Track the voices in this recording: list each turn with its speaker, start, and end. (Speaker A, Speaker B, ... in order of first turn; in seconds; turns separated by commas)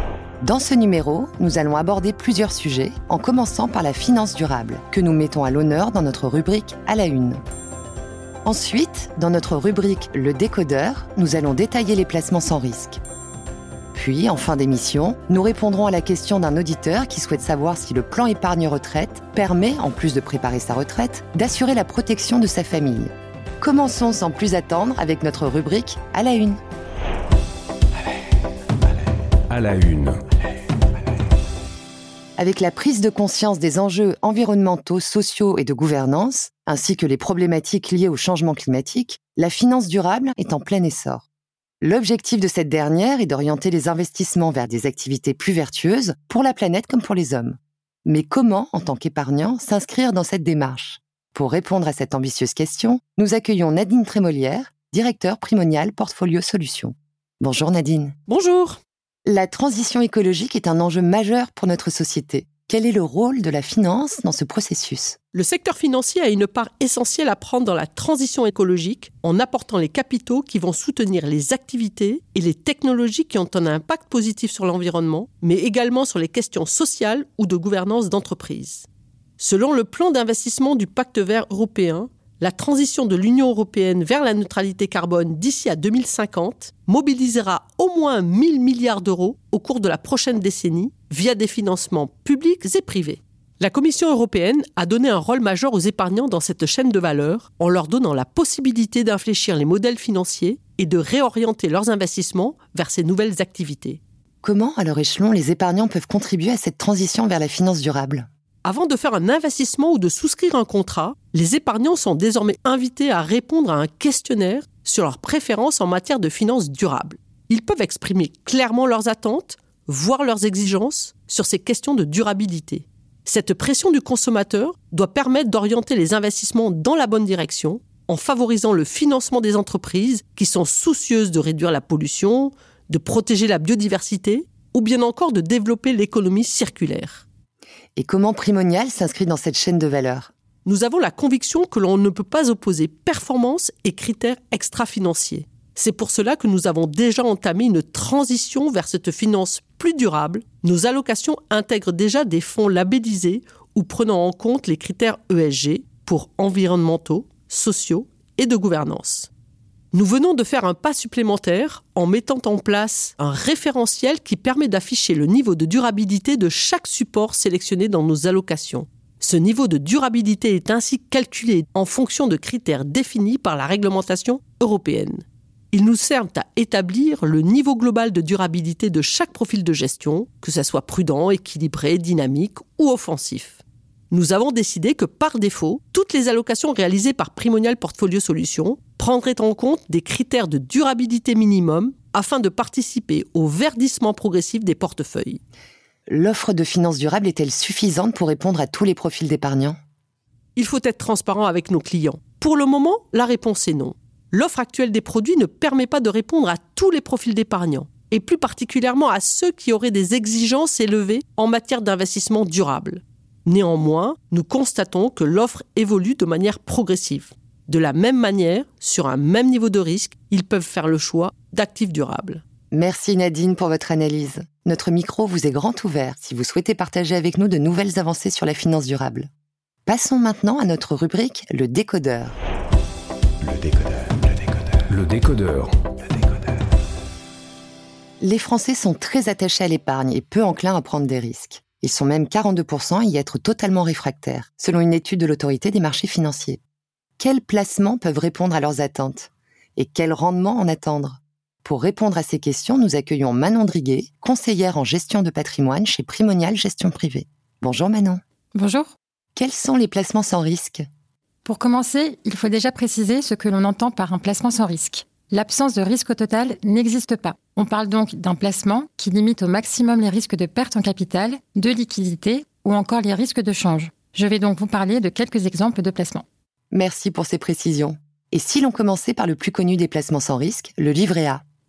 Speaker A: 0.4-7.4, Speaker A: 8.4-13.0, Speaker A: 13.9-26.6, Speaker B: 29.5-30.2, Speaker A: 32.4-41.3, Speaker A: 41.8-58.2, Speaker C: 58.3-58.8, Speaker A: 59.3-65.2, Speaker C: 65.3-78.9, Speaker C: 79.4-104.0, Speaker A: 104.4-108.3, Speaker C: 108.7-137.2, Speaker A: 138.0-140.3, Speaker C: 140.7-159.3, Speaker C: 159.9-195.4, Speaker A: 196.1-199.8, Speaker C: 200.6-222.4, Speaker A: 222.7-229.3, Speaker A: 229.9-232.3, Speaker B: 233.4-235.8, Speaker A: 238.2-246.6, Speaker A: 247.2-258.2, Speaker D: 258.5-258.9, Speaker A: 259.4-260.9, Speaker D: 261.4-276.2, Speaker A: 276.7-281.4